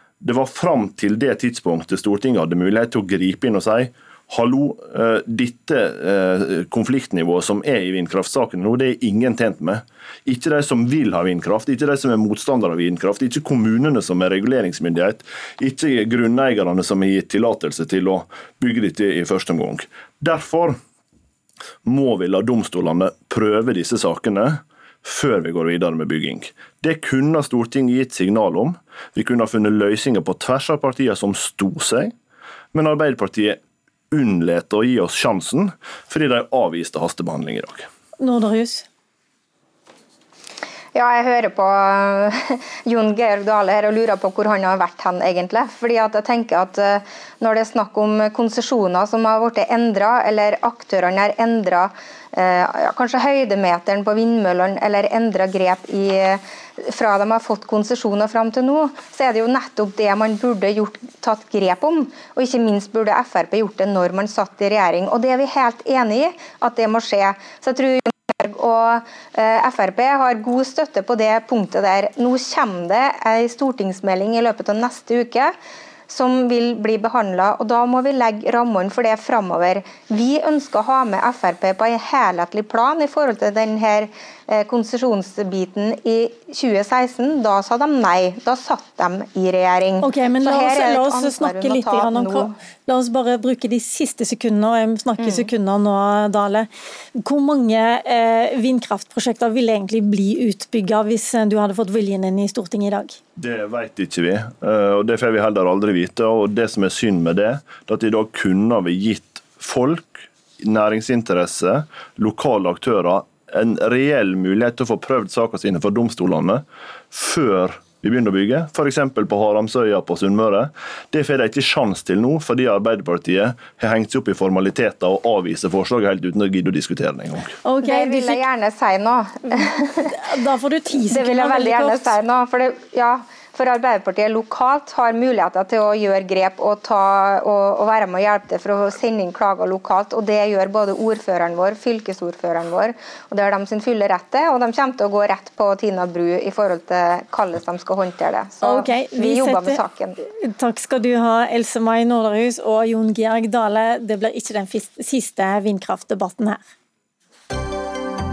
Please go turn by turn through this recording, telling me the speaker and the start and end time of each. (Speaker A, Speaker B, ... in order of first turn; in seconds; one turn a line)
Speaker A: 0.2-20.8
Speaker A: 21.8-32.1
Speaker A: 32.7-33.6
Speaker A: 34.1-37.9
Speaker B: 38.2-38.9
Speaker C: 40.9-75.5
Speaker C: 76.1-92.5
Speaker B: 90.0-103.2
Speaker C: 95.2-95.5
Speaker A: 103.4-127.5
Speaker B: 127.6-128.4
Speaker C: 127.8-130.2
Speaker B: 129.5-132.2
Speaker C: 131.0-150.2
Speaker B: 148.6-149.8
Speaker B: 150.4-156.6